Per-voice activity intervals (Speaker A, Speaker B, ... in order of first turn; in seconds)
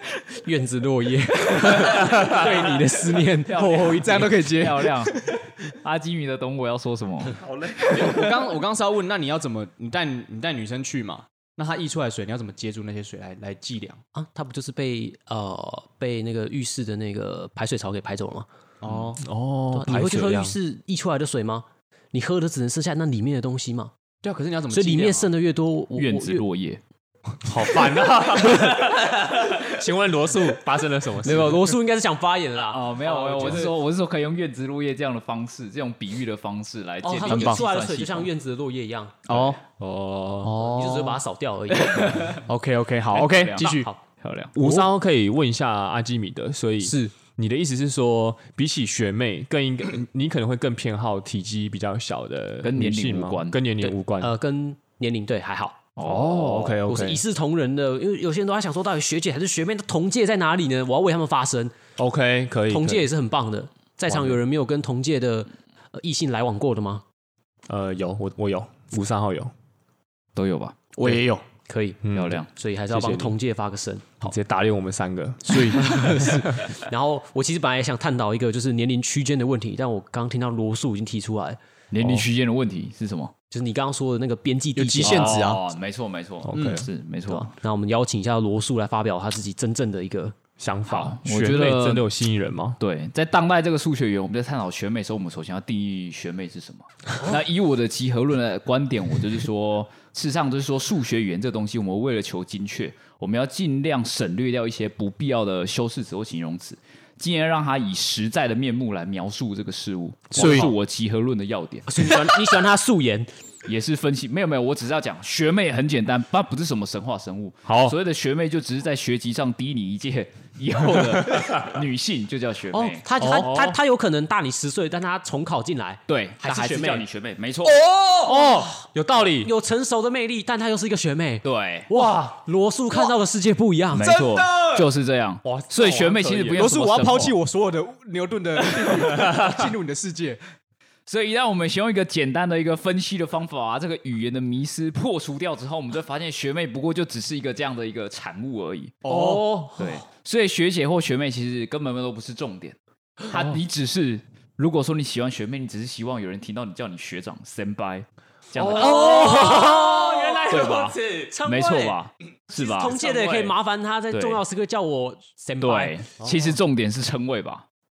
Speaker A: 0.4-4.2, 14.1-18.5, 19.7-23.9, 24.7-26.4, 31.2-33.8, 37.0-39.3, 40.6-42.4, 43.6-44.0, 46.8-47.1, 53.8-55.8, 56.9-61.8, 62.7-67.0, 71.7-74.3, 75.7-81.6, 83.5-85.4, 87.3-90.3, 111.9-113.3, 122.7-127.0, 128.2-128.9, 129.4-134.1, 149.1-150.0, 158.7-162.0, 162.5-166.0
Speaker B: 3.5-7.4, 26.0-26.8, 32.6-38.3, 41.7-42.4, 43.1-44.5, 52.6-53.7, 56.0-56.8, 70.3-70.8, 72.1-72.5, 81.9-83.3, 85.0-87.5, 90.9-92.1, 92.8-112.2, 113.7-123.5, 126.1-127.8, 131.4-131.9, 133.9-137.4, 141.1-149.0, 149.8-160.0, 160.5-163.5, 164.1-164.4, 165.6-167.7
Speaker C: 3.8-5.3, 7.9-14.0, 18.8-19.2, 24.2-25.3, 37.3-37.6, 39.3-39.6, 40.4-41.2, 42.5-43.9, 71.0-71.4, 75.5-76.4, 84.8-85.7, 110.3-110.7, 134.0-134.9, 136.6-140.4, 149.0-149.6
Speaker D: 7.4-8.3, 19.2-20.6, 27.4-31.8, 39.8-40.6, 44.5-54.3, 56.0-57.2, 62.0-63.1, 64.1-64.4, 67.7-69.5, 72.0-73.4, 74.2-76.4, 82.0-82.3, 86.5-86.9, 90.6-92.8, 117.7-118.0, 121.3-121.8, 123.2-123.8, 127.9-129.5, 131.9-132.4, 135.4-136.7, 139.1-139.5, 149.1-149.7, 158.5-160.9, 166.2-166.6